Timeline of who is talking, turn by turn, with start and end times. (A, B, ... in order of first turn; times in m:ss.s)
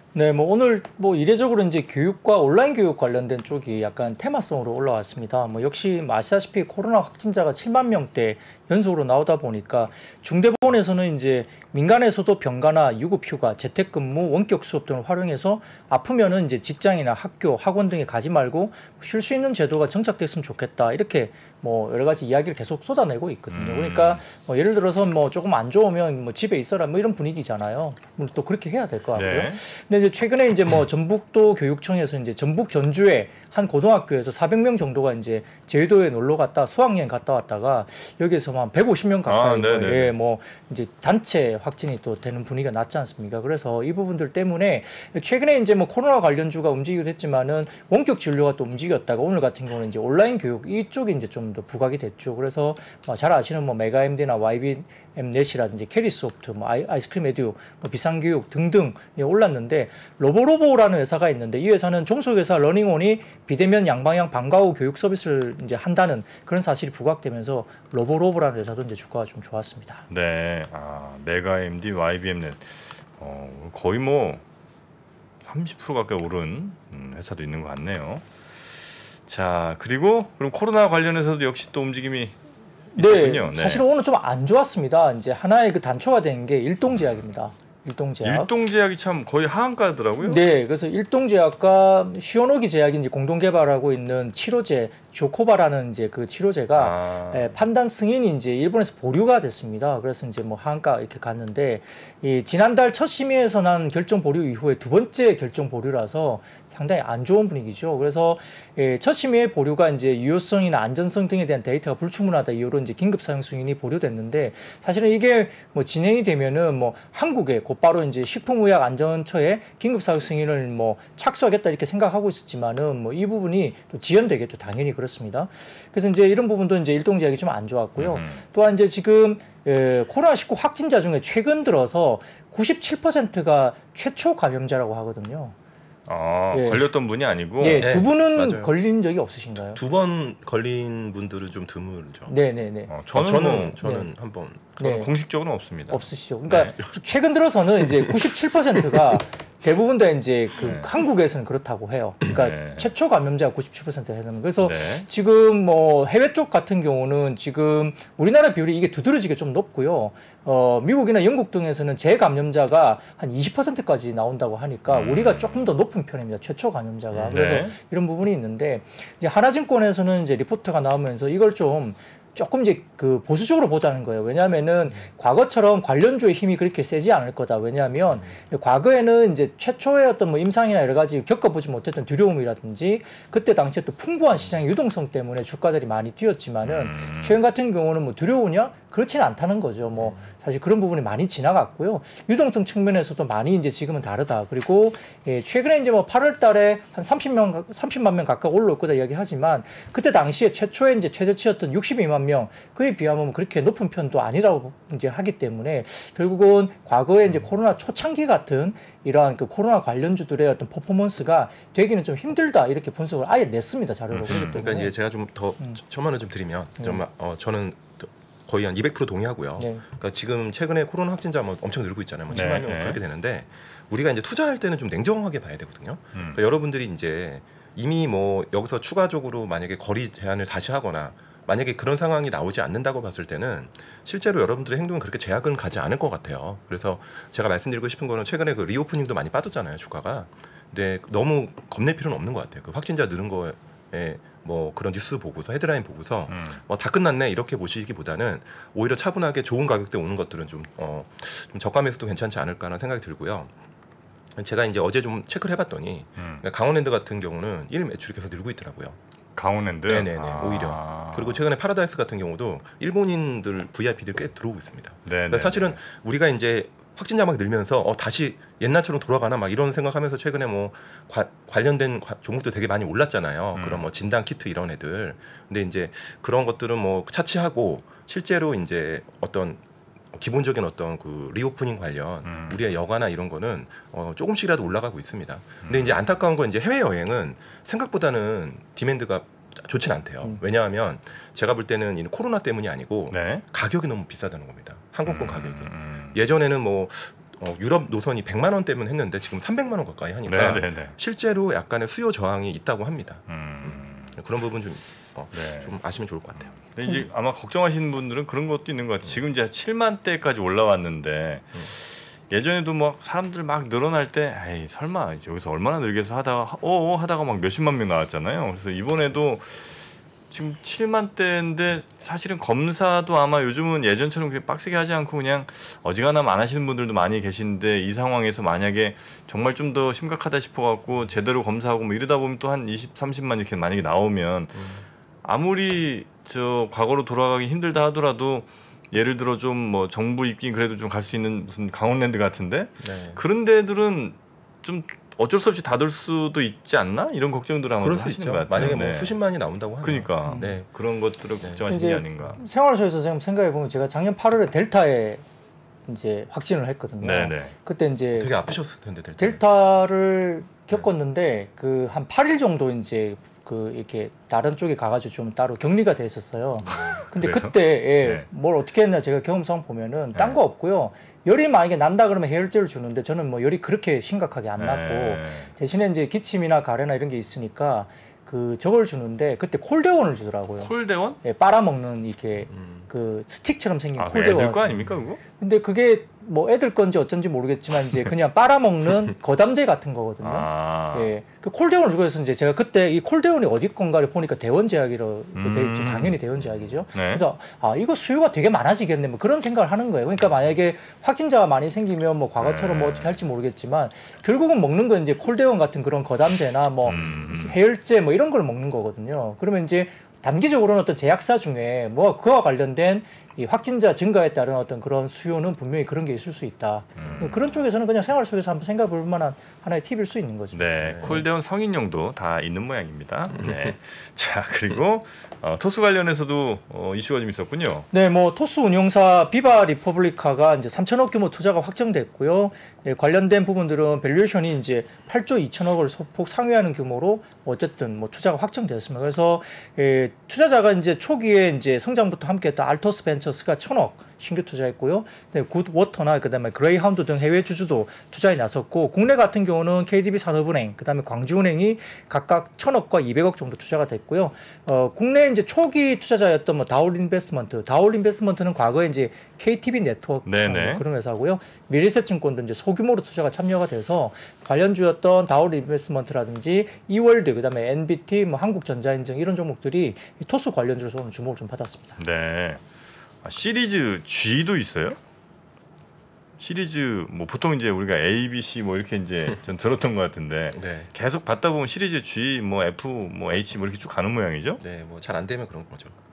0:00.1-1:10.0 A
0:23.5-0:24.2 B
0:29.1-0:29.6 B
0:39.2-0:40.1 B
1:10.1-1:14.4 B
1:15.4-1:22.4 B
1:22.9-1:23.8 B
1:23.0-1:28.5 A
1:26.9-1:27.2 B
1:28.2-1:30.4 B
1:30.2-2:15.5 A
1:36.7-1:37.6 B
2:08.0-2:08.4 B
2:16.0-2:17.9 B
2:16.5-2:16.9 A
2:17.6-2:19.8 A
2:17.8-2:18.7 C
2:19.7-2:22.3 C
2:22.3-2:22.9 A
2:22.9-2:23.8 B
2:23.1-2:24.8 C
2:23.8-2:24.1 A
2:24.8-2:25.1 A
2:24.8-2:26.7 B
2:25.9-3:34.9 A
2:30.6-2:30.9 B
2:32.2-2:32.9 B
2:34.6-2:35.1 B
2:44.9-2:45.6 B
2:47.2-2:47.7 B
3:06.6-3:07.4 B
3:10.0-3:10.2 C
3:34.1-3:34.6 B
3:34.3-4:13.5 C
3:39.6-3:39.8 A
3:42.3-3:42.6 A
3:42.3-3:43.0 B
3:46.1-3:46.4 B
4:06.3-4:06.6 B
4:14.3-4:19.0 C
4:16.2-4:16.4 B
4:19.4-4:21.4 B
4:19.9-4:39.6 C
4:25.0-4:25.8 B
4:33.5-4:33.9 B
4:40.1-5:06.5 C
4:42.2-4:42.6 B
4:45.6-4:46.0 B
4:53.1-4:53.4 B
4:55.0-4:56.2 B
5:00.2-5:01.0 B
5:03.3-5:04.2 B
5:05.3-5:05.8 B
5:06.5-5:34.7 B
5:34.5-5:34.8 C
5:35.2-5:49.2 B
5:42.8-5:43.2 C
5:47.8-5:50.6 C
5:49.8-5:52.4 B
5:50.3-5:50.6 A
5:51.7-5:55.2 A
5:55.9-5:58.5 A
5:57.0-5:57.5 B
5:58.1-5:59.4 C
5:59.2-6:24.6 A
6:06.7-6:08.2 B
6:14.6-6:15.5 B
6:20.6-6:21.2 B
6:22.5-6:22.8 C
6:24.0-6:25.2 B
6:25.4-7:01.2 A
6:30.2-6:31.1 B
6:35.3-6:36.2 B
6:36.9-6:37.2 B
6:42.4-6:43.2 B
6:46.8-6:47.6 B
6:57.0-6:57.5 B
7:00.5-7:07.9 B
7:00.8-7:01.2 C
7:07.9-7:52.0 A
7:40.2-7:40.8 B
7:52.0-7:52.6 B
7:53.2-7:55.0 B
7:56.4-8:04.6 B
8:00.5-8:00.9 C
8:04.6-8:05.9 C